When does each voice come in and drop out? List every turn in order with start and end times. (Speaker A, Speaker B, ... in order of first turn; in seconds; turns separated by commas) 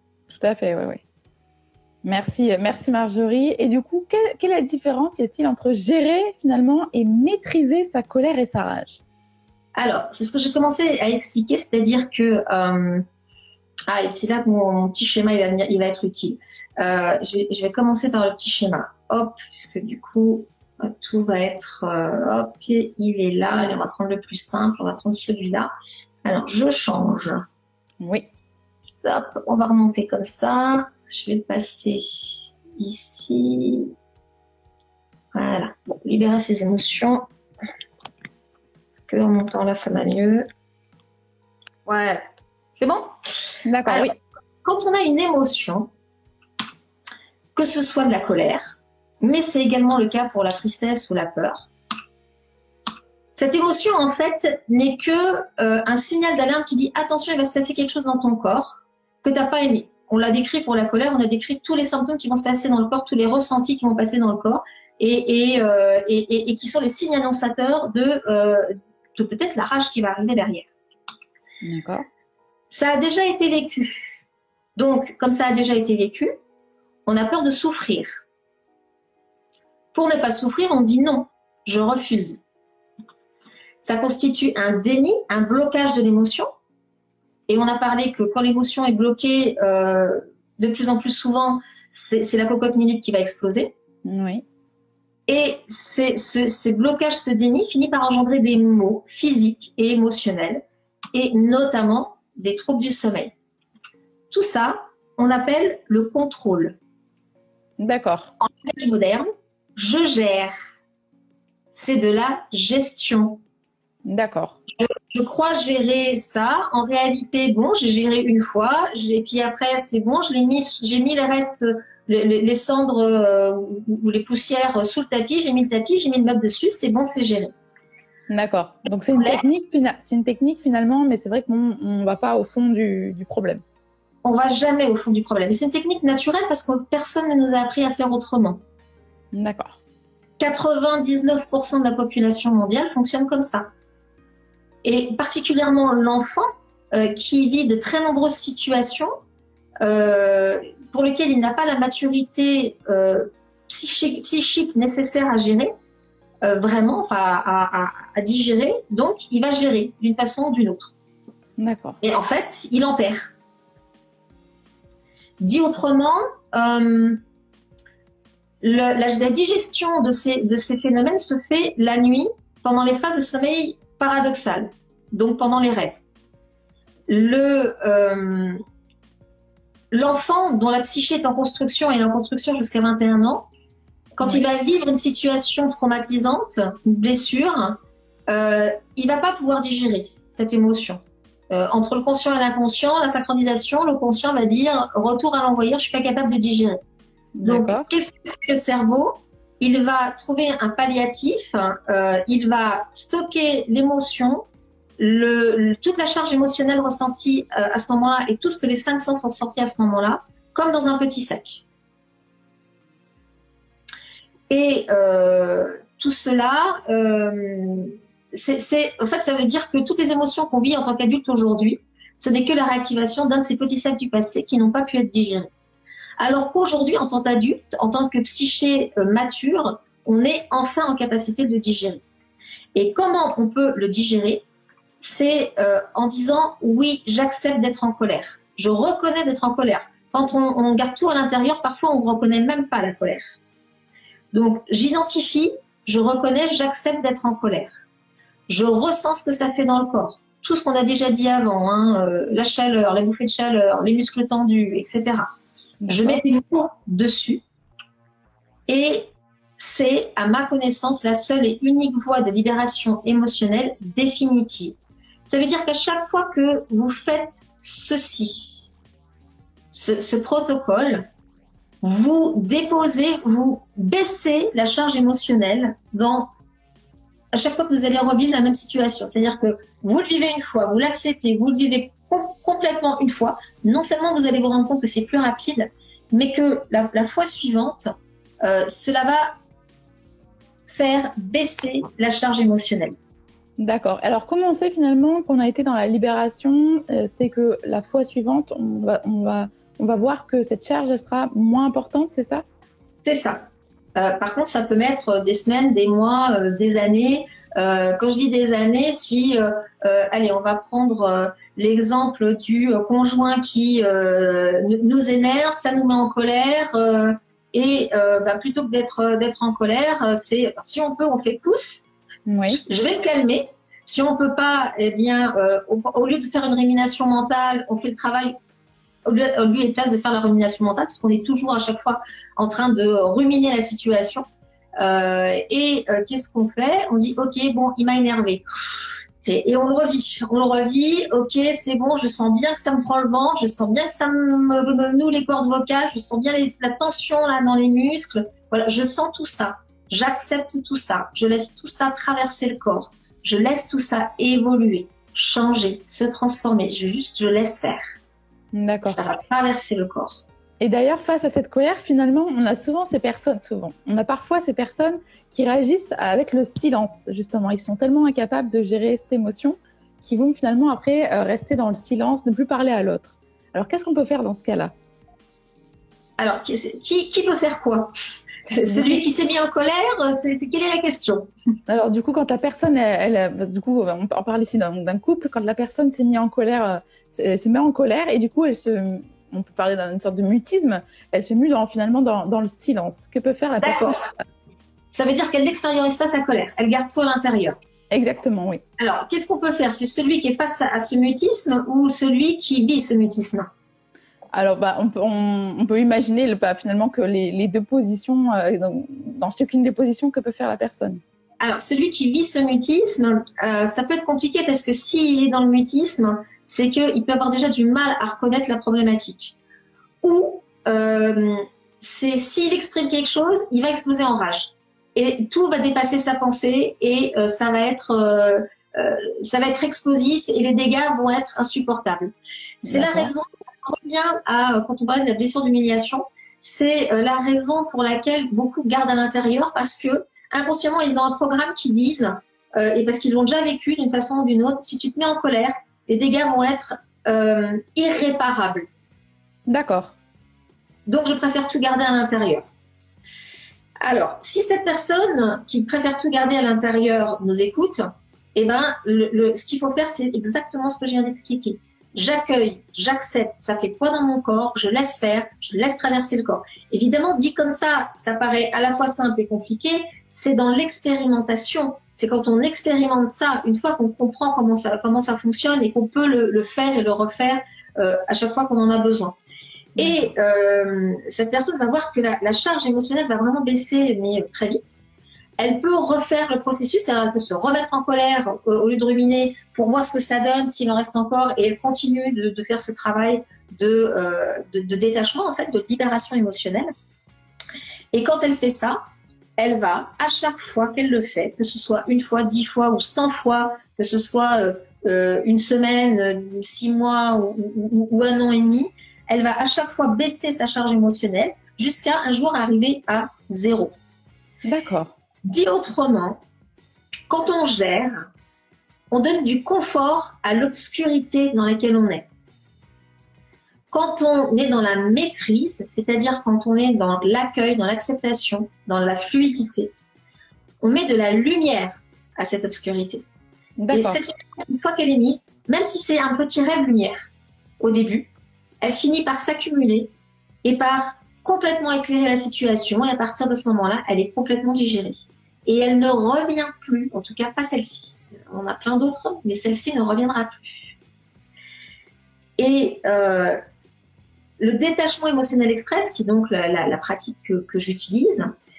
Speaker A: 0.3-1.0, Speaker A: 2.0-9.0, Speaker B: 9.8-13.1, Speaker B: 13.9-25.7, Speaker B: 26.2-27.4, Speaker A: 28.0-28.3, Speaker B: 28.9-33.9, Speaker B: 35.3-37.3, Speaker B: 38.9-40.5, Speaker B: 41.9-42.2, Speaker B: 42.8-43.1, Speaker A: 43.6-44.1, Speaker B: 43.9-45.9, Speaker B: 47.6-51.7, Speaker B: 53.3-70.7, Speaker A: 71.6-72.0, Speaker B: 72.7-74.2, Speaker B: 74.8-76.3, Speaker B: 77.1-78.2, Speaker B: 79.9-82.4, Speaker B: 83.8-86.5, Speaker B: 87.5-93.7, Speaker A: 94.0-94.4, Speaker B: 95.3-100.6, Speaker B: 101.1-103.3, Speaker B: 104.3-106.8, Speaker A: 107.8-108.3, Speaker B: 108.4-110.5, Speaker B: 111.7-113.4, Speaker A: 114.0-114.6, Speaker B: 114.8-127.5, Speaker A: 128.3-133.6, Speaker B: 129.2-129.4, Speaker B: 134.2-138.6, Speaker A: 139.3-139.8, Speaker B: 140.4-143.7, Speaker B: 144.8-149.1, Speaker B: 149.8-155.7, Speaker B: 156.4-160.9, Speaker A: 161.6-162.0, Speaker B: 162.0-163.3, Speaker B: 165.4-167.2, Speaker B: 168.6-176.0, Speaker B: 177.1-178.6, Speaker B: 179.9-183.5, Speaker B: 184.2-196.8, Speaker A: 197.3-197.9, Speaker B: 197.4-204.5, Speaker B: 205.0-211.7, Speaker B: 214.5-225.5, Speaker B: 226.2-232.0, Speaker B: 232.8-234.4, Speaker B: 235.0-243.4, Speaker B: 244.3-247.7, Speaker B: 248.5-255.3, Speaker A: 255.8-256.2, Speaker B: 255.9-257.4, Speaker B: 258.7-268.6, Speaker B: 269.7-271.1, Speaker B: 271.8-276.3, Speaker B: 277.3-289.4, Speaker B: 290.7-293.0, Speaker A: 293.6-302.4, Speaker B: 303.0-321.9, Speaker A: 322.3-322.6, Speaker B: 322.5-328.3, Speaker B: 329.1-334.3, Speaker B: 334.8-357.8, Speaker A: 358.5-359.0, Speaker B: 358.9-360.2, Speaker A: 360.6-374.7, Speaker B: 376.2-377.9, Speaker B: 378.5-381.3, Speaker A: 378.7-379.0, Speaker A: 381.7-394.4, Speaker B: 393.6-394.0, Speaker B: 394.9-397.6, Speaker A: 397.9-398.6, Speaker B: 398.8-403.5, Speaker A: 404.3-411.0, Speaker B: 411.4-419.4, Speaker B: 420.0-448.7, Speaker A: 432.7-433.1, Speaker A: 449.5-449.9, Speaker B: 450.9-452.4, Speaker B: 453.8-479.2, Speaker B: 479.8-484.8, Speaker A: 479.8-480.1, Speaker B: 485.4-496.7, Speaker B: 497.9-498.8, Speaker B: 499.4-513.8, Speaker A: 514.4-515.0, Speaker B: 515.2-516.2, Speaker B: 517.1-518.1, Speaker B: 518.9-522.1, Speaker B: 523.7-529.7, Speaker B: 530.6-533.0, Speaker A: 533.6-534.0, Speaker B: 533.7-537.1, Speaker B: 537.6-538.1, Speaker B: 538.6-539.9, Speaker B: 540.4-550.7, Speaker B: 552.4-553.4, Speaker B: 554.4-558.3